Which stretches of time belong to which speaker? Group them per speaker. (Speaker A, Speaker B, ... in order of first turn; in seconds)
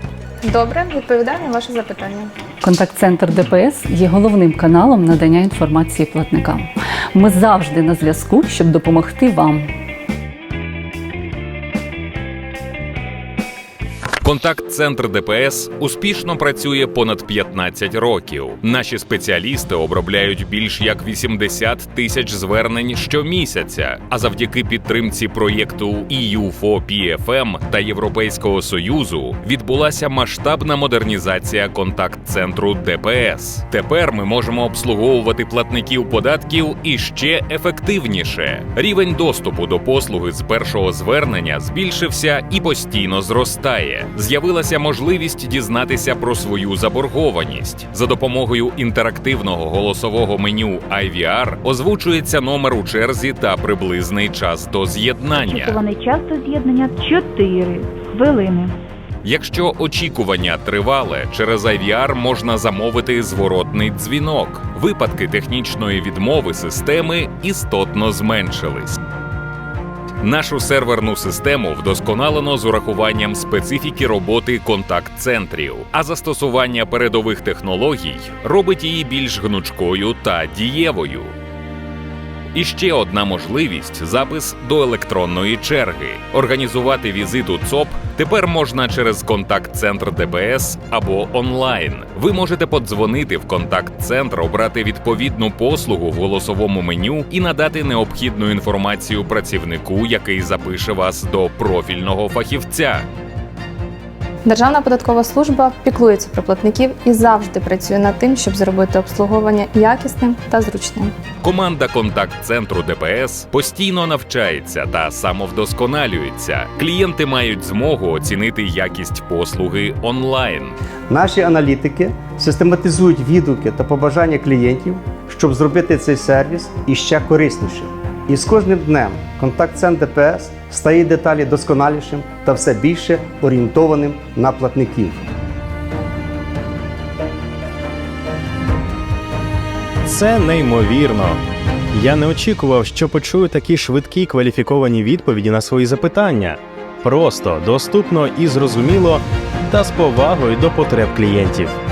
Speaker A: 0.4-2.3, 104.5-111.1
Speaker B: 2.6-9.7
Speaker C: 14.2-55.8, 59.2-69.0, 70.2-81.3, 82.5-103.0, 111.4-120.8
Speaker D: 55.3-58.7
Speaker E: 121.1-135.2
Speaker F: 140.0-141.4, 141.9-151.8